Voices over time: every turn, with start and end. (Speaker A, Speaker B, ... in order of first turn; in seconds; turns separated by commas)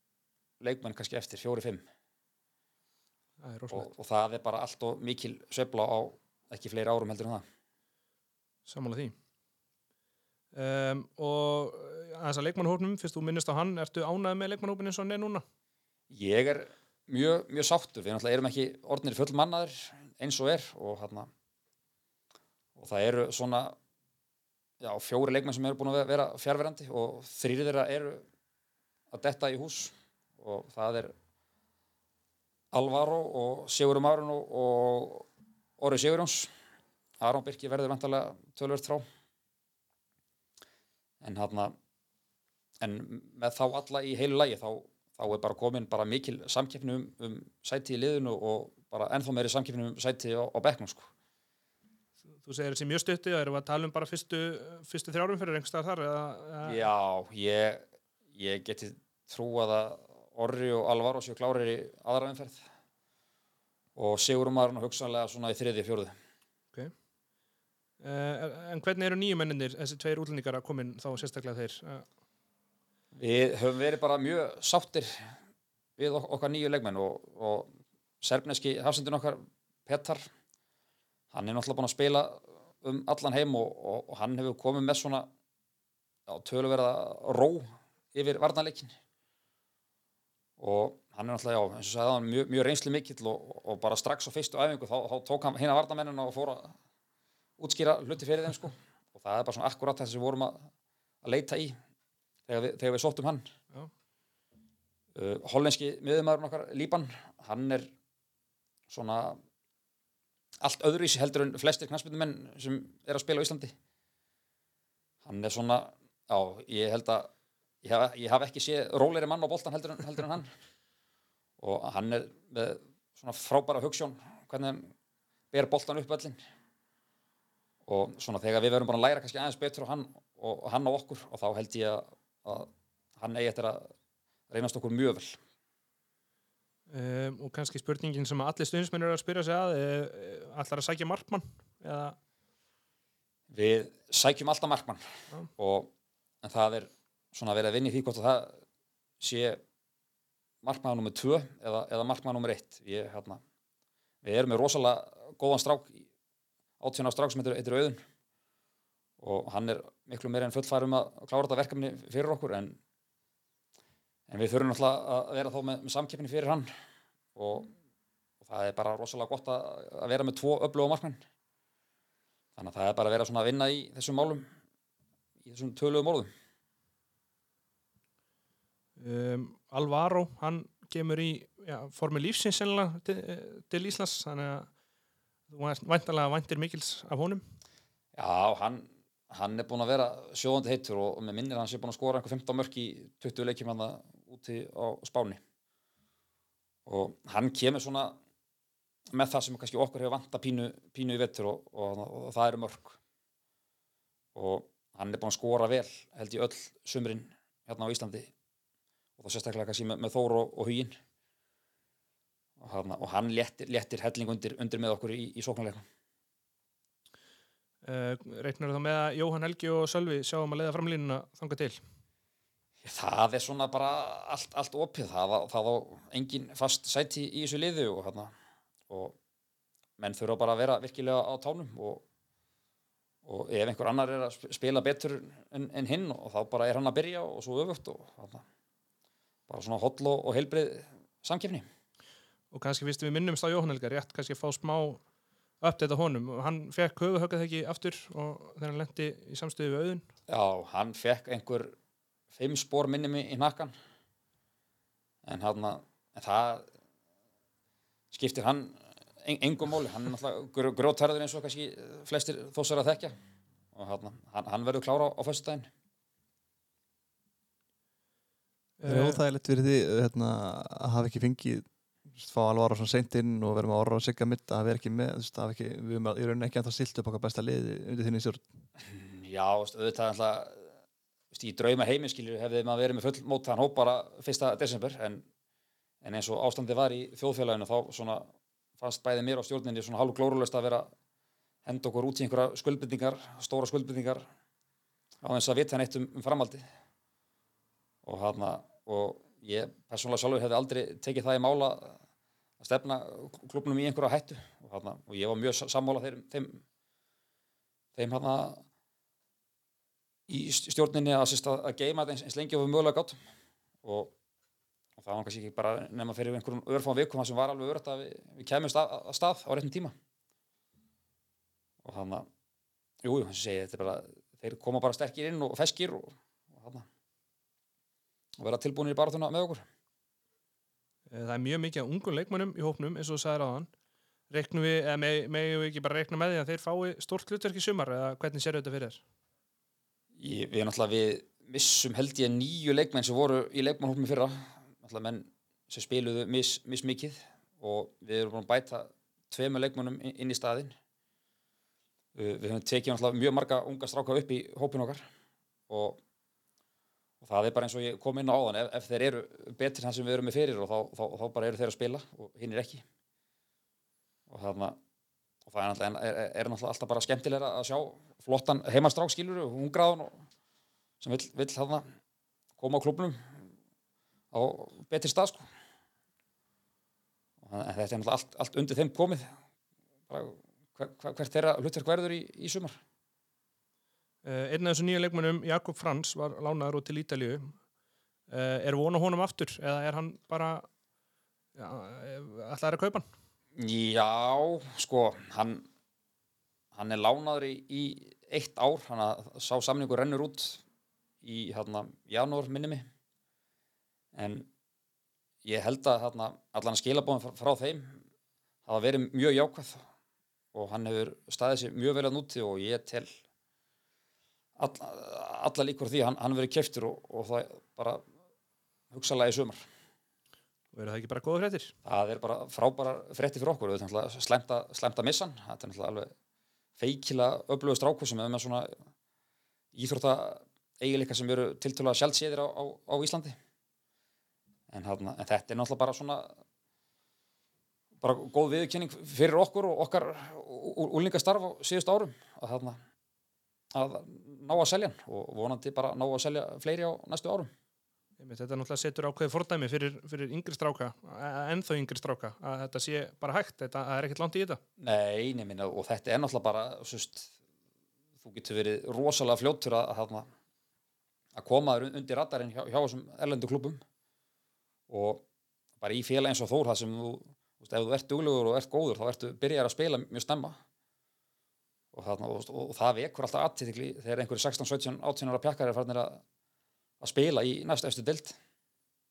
Speaker A: 0.6-1.8, Speaker B: 3.4-3.9, Speaker A: 3.7-7.4, Speaker B: 8.7-9.2, Speaker B: 10.5-15.4, Speaker A: 16.1-21.3, Speaker A: 22.8-23.8, Speaker A: 24.8-28.2, Speaker A: 29.1-31.1, Speaker A: 32.7-35.2, Speaker A: 35.8-36.5, Speaker A: 37.2-39.0, Speaker A: 41.2-41.8, Speaker A: 42.8-51.1, Speaker B: 52.4-56.8, Speaker A: 56.6-62.6, Speaker A: 64.0-66.2, Speaker B: 68.0-72.1, Speaker A: 73.1-75.3, Speaker A: 76.0-77.7, Speaker A: 78.2-80.2, Speaker A: 81.3-85.3, Speaker A: 86.3-88.9, Speaker A: 90.6-96.8, Speaker A: 97.6-100.7, Speaker A: 101.2-101.8, Speaker A: 102.5-103.5, Speaker A: 105.2-107.9, Speaker A: 108.9-109.4, Speaker A: 110.6-113.7, Speaker A: 115.2-117.3, Speaker A: 117.8-120.5, Speaker A: 121.6-124.9, Speaker A: 125.5-126.4, Speaker A: 127.9-133.9, Speaker A: 134.5-135.4, Speaker B: 136.9-142.2, Speaker A: 143.5-145.9, Speaker A: 146.4-148.6, Speaker A: 149.2-149.6, Speaker A: 150.6-153.4, Speaker A: 154.2-156.1, Speaker A: 156.8-158.0, Speaker A: 159.2-162.8, Speaker A: 164.3-166.7, Speaker A: 167.3-167.7, Speaker A: 168.4-171.2, Speaker A: 172.6-174.5, Speaker A: 175.4-176.3, Speaker B: 179.0-184.7, Speaker B: 185.5-187.4, Speaker A: 188.2-195.4, Speaker A: 196.9-198.2, Speaker A: 199.1-203.0, Speaker A: 204.3-208.3, Speaker A: 209.2-211.0, Speaker A: 212.6-215.8, Speaker B: 217.8-221.8, Speaker A: 222.8-228.3, Speaker A: 228.9-229.2, Speaker A: 230.0-232.0, Speaker A: 233.2-238.4, Speaker A: 239.5-241.7, Speaker B: 242.5-245.0, Speaker B: 245.6-250.1, Speaker A: 250.3-251.8, Speaker A: 252.3-253.7, Speaker A: 255.2-256.7, Speaker A: 258.1-263.1, Speaker A: 263.8-265.7, Speaker B: 268.8-269.2, Speaker C: 268.9-278.5, Speaker A: 278.8-280.7, Speaker A: 281.3-285.2, Speaker A: 286.0-290.9, Speaker A: 291.6-294.2, Speaker A: 295.2-296.6, Speaker A: 298.0-302.0, Speaker A: 302.6-306.6, Speaker A: 308.0-308.6, Speaker A: 310.3-313.2, Speaker A: 313.8-314.1, Speaker A: 315.0-319.9, Speaker A: 321.8-322.3, Speaker A: 323.0-326.9, Speaker A: 328.4-329.6, Speaker B: 331.1-333.7, Speaker B: 334.3-339.0, Speaker A: 340.2-350.8, Speaker A: 352.1-355.0, Speaker A: 355.7-356.0, Speaker A: 357.2-362.8, Speaker A: 364.3-364.8, Speaker A: 365.5-370.2, Speaker A: 371.0-371.9, Speaker A: 372.6-373.2, Speaker A: 374.3-375.4, Speaker A: 377.4-379.3, Speaker A: 380.1-382.8, Speaker B: 384.2-387.6, Speaker B: 388.3-390.7, Speaker B: 391.6-393.1, Speaker A: 393.6-395.7, Speaker A: 396.8-400.6, Speaker A: 401.2-402.9, Speaker A: 404.1-404.5, Speaker A: 405.4-408.0, Speaker A: 408.7-409.8, Speaker A: 410.5-413.1, Speaker A: 414.6-418.0, Speaker A: 418.9-419.6, Speaker B: 420.7-421.7, Speaker A: 421.9-426.1, Speaker A: 426.8-428.7, Speaker A: 429.7-433.4, Speaker A: 434.7-436.4, Speaker A: 438.0-442.8, Speaker A: 443.7-447.5, Speaker B: 448.2-454.6, Speaker A: 454.8-457.3, Speaker A: 458.2-460.3, Speaker A: 461.4-463.8, Speaker A: 464.9-465.2, Speaker A: 465.8-470.6, Speaker A: 471.9-476.2, Speaker A: 477.0-478.4